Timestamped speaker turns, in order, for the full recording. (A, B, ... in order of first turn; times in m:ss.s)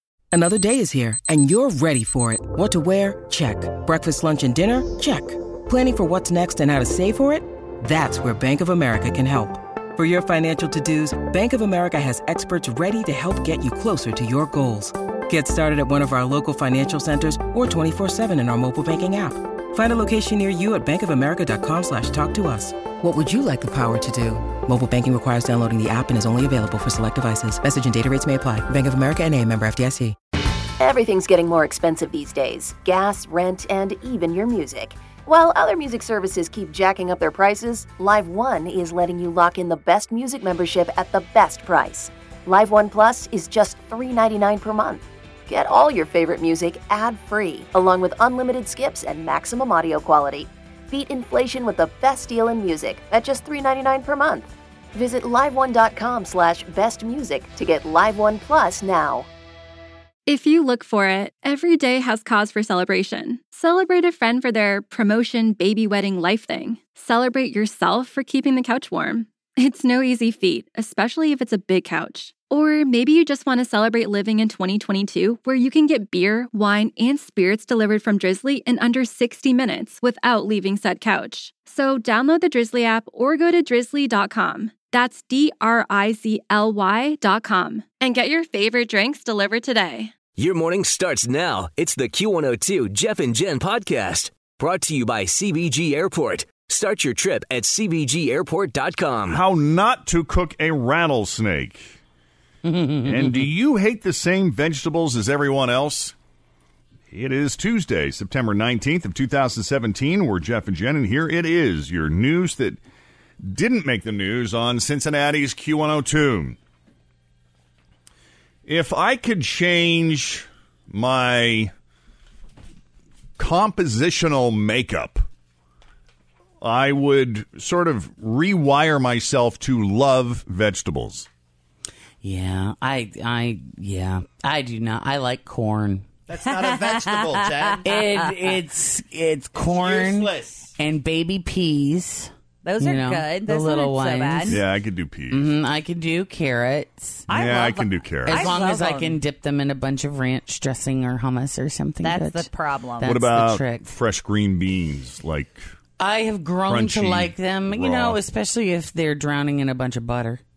0:00.3-0:30.1 A
0:30.8-0:59.3 B
1:00.2-1:30.1 C
1:30.4-1:39.4 D
1:39.2-1:42.0 E
1:42.6-1:43.5 F
1:43.0-1:46.1 E
1:47.1-1:52.8 E
1:53.4-1:56.6 E
1:58.6-2:01.7 E
2:03.4-2:05.2 E
2:06.6-2:11.3 E
2:12.2-2:16.0 F
2:16.3-2:17.9 G
2:16.6-2:18.2 H
2:17.8-2:24.6 F
2:19.6-2:20.7 G
2:22.6-2:24.6 H
2:24.5-2:25.5 E
2:25.3-2:27.2 F
2:27.3-2:29.2 H
2:27.3-2:28.5 E
2:28.2-2:32.5 F
2:32.0-2:33.1 H
2:33.0-2:33.9 F
2:33.0-2:35.7 E
2:36.0-2:40.4 F
2:36.6-2:38.2 E